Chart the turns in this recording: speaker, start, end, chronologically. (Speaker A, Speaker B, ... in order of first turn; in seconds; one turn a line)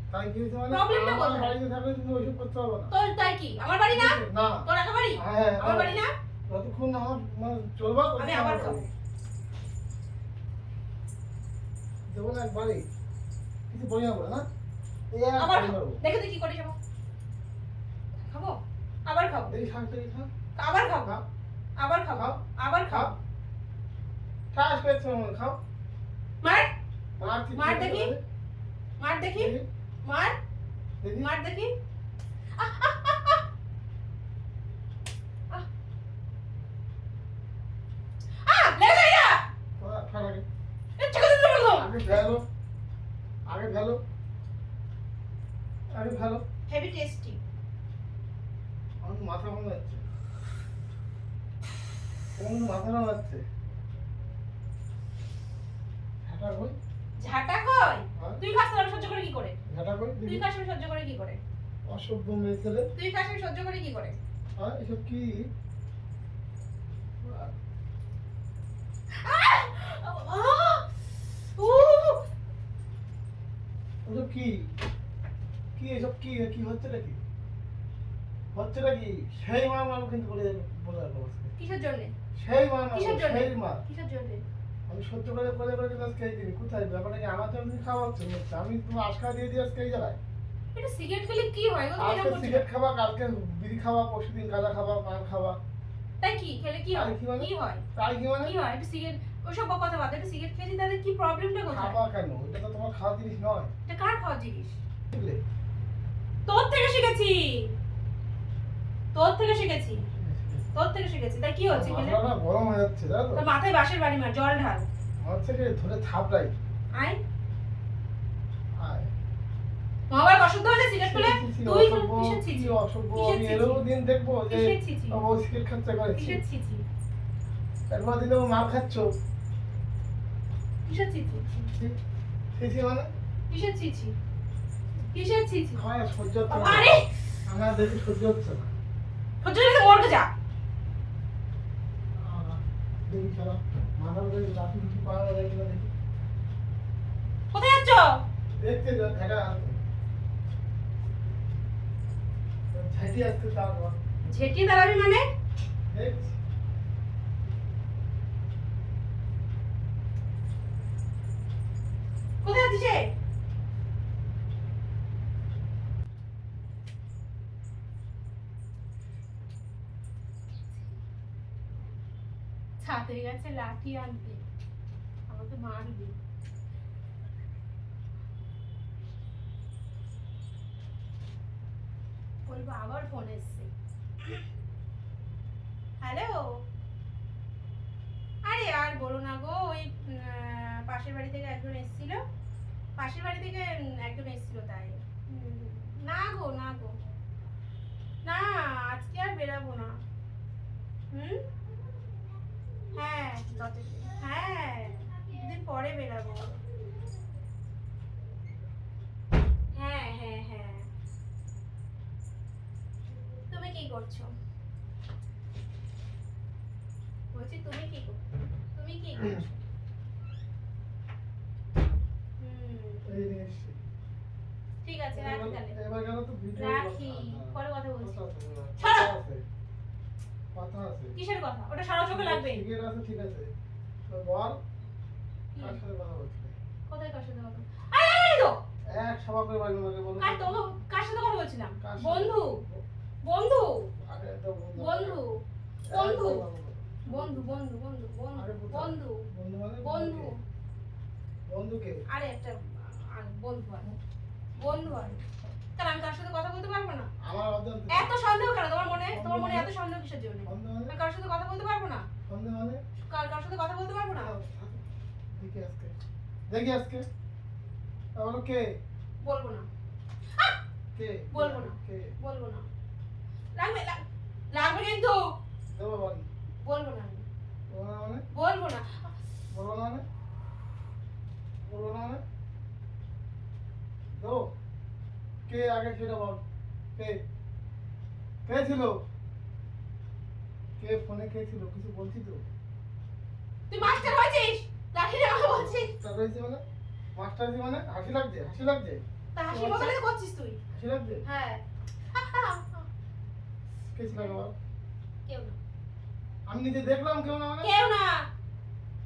Speaker A: 0.1-2.9
Speaker B: 0.7-1.5
Speaker B: 2.9-6.1
Speaker A: 3.9-8.9
Speaker B: 8.2-8.9
Speaker A: 12.1-12.8
Speaker A: 13.7-14.4
Speaker A: 15.1-16.0
Speaker B: 15.4-16.8
Speaker B: 18.2-19.6
Speaker A: 19.5-20.3
Speaker B: 20.6-21.1
Speaker B: 21.8-23.1
Speaker A: 22.1-23.1
Speaker A: 24.5-25.6
Speaker B: 26.4-26.7
Speaker A: 27.2-28.2
Speaker B: 27.5-28.1
Speaker B: 29.0-29.5
Speaker A: 29.3-29.6
Speaker B: 30.0-30.3
Speaker A: 31.0-31.3
Speaker B: 31.2-31.7
Speaker B: 32.5-33.4
Speaker B: 38.4-39.4
Speaker A: 39.8-40.4
Speaker B: 41.0-42.0
Speaker A: 41.7-42.4
Speaker A: 43.5-44.0
Speaker A: 45.9-46.4
Speaker B: 46.7-47.4
Speaker A: 49.0-50.0
Speaker A: 52.4-53.4
Speaker A: 56.2-56.8
Speaker B: 57.2-59.6
Speaker A: 58.1-58.4
Speaker A: 59.7-60.5
Speaker B: 60.2-61.4
Speaker A: 61.9-62.9
Speaker B: 62.9-64.2
Speaker A: 64.6-65.5
Speaker A: 67.2-67.5
Speaker B: 69.1-72.2
Speaker A: 74.0-74.7
Speaker A: 75.8-77.2
Speaker A: 78.5-81.5
Speaker B: 81.6-82.1
Speaker A: 82.3-83.8
Speaker B: 82.9-84.4
Speaker A: 84.9-90.2
Speaker B: 90.7-92.6
Speaker A: 92.0-95.6
Speaker B: 96.2-97.8
Speaker A: 96.9-98.5
Speaker B: 98.4-102.0
Speaker A: 101.7-103.7
Speaker B: 103.8-104.8
Speaker A: 105.1-105.4
Speaker B: 106.5-107.7
Speaker B: 109.1-110.0
Speaker A: 110.2-110.7
Speaker B: 110.7-112.2
Speaker A: 111.7-113.5
Speaker B: 113.3-114.8
Speaker A: 115.2-116.5
Speaker A: 118.8-119.1
Speaker B: 120.1-123.8
Speaker A: 121.0-126.4
Speaker B: 124.5-125.2
Speaker B: 126.1-126.8
Speaker A: 127.9-129.1
Speaker B: 130.8-131.5
Speaker A: 131.6-131.9
Speaker A: 132.5-133.1
Speaker B: 133.5-134.1
Speaker B: 135.1-135.8
Speaker A: 135.8-136.9
Speaker B: 136.5-137.1
Speaker A: 137.4-138.7
Speaker B: 139.4-140.3
Speaker A: 142.2-145.9
Speaker B: 147.5-148.1
Speaker A: 148.6-149.8
Speaker A: 152.7-154.0
Speaker B: 154.3-155.2
Speaker A: 155.9-156.3
Speaker B: 162.4-163.0
Speaker B: 172.8-174.4
Speaker B: 175.3-176.2
Speaker B: 182.4-183.7
Speaker B: 186.0-186.5
Speaker B: 188.4-192.2
Speaker B: 193.0-196.9
Speaker B: 198.2-199.9
Speaker B: 201.1-201.4
Speaker B: 202.9-206.6
Speaker B: 209.7-210.9
Speaker B: 213.5-214.3
Speaker B: 217.3-218.2
Speaker B: 218.7-219.6
Speaker B: 222.4-223.2
Speaker A: 223.0-223.8
Speaker B: 224.8-225.8
Speaker A: 225.1-229.4
Speaker B: 226.6-228.2
Speaker B: 228.8-229.1
Speaker A: 230.5-231.1
Speaker B: 231.2-232.6
Speaker A: 232.1-233.5
Speaker A: 234.1-234.6
Speaker A: 235.6-236.6
Speaker B: 236.9-238.6
Speaker A: 238.9-240.6
Speaker B: 240.2-242.6
Speaker A: 241.8-242.8
Speaker B: 243.2-243.9
Speaker A: 244.0-245.2
Speaker B: 244.8-246.4
Speaker A: 245.9-247.6
Speaker B: 247.1-249.2
Speaker A: 248.3-250.3
Speaker B: 249.8-250.3
Speaker A: 251.5-252.0
Speaker B: 252.1-253.9
Speaker B: 254.6-255.2
Speaker A: 254.6-255.3
Speaker B: 255.8-257.1
Speaker A: 257.2-258.1
Speaker B: 257.9-262.1
Speaker A: 258.9-259.7
Speaker A: 260.4-260.9
Speaker A: 262.3-262.8
Speaker B: 263.1-264.3
Speaker A: 264.1-265.9
Speaker A: 266.5-267.0
Speaker A: 268.2-268.6
Speaker B: 269.2-269.7
Speaker A: 270.9-272.1
Speaker B: 271.3-272.7
Speaker B: 273.6-275.2
Speaker A: 275.7-276.3
Speaker B: 276.6-277.2
Speaker A: 277.7-278.2
Speaker B: 278.3-279.1
Speaker A: 279.5-280.0
Speaker A: 281.6-282.2
Speaker A: 284.2-284.4
Speaker A: 285.5-286.4
Speaker A: 288.4-288.9
Speaker A: 290.8-292.5
Speaker B: 293.7-295.9
Speaker A: 293.8-294.2
Speaker A: 295.4-296.6
Speaker A: 297.1-300.0
Speaker B: 299.4-300.6
Speaker A: 300.7-301.2
Speaker B: 301.2-302.9
Speaker A: 303.9-304.5
Speaker B: 305.2-305.6
Speaker A: 306.5-307.9
Speaker B: 307.6-308.2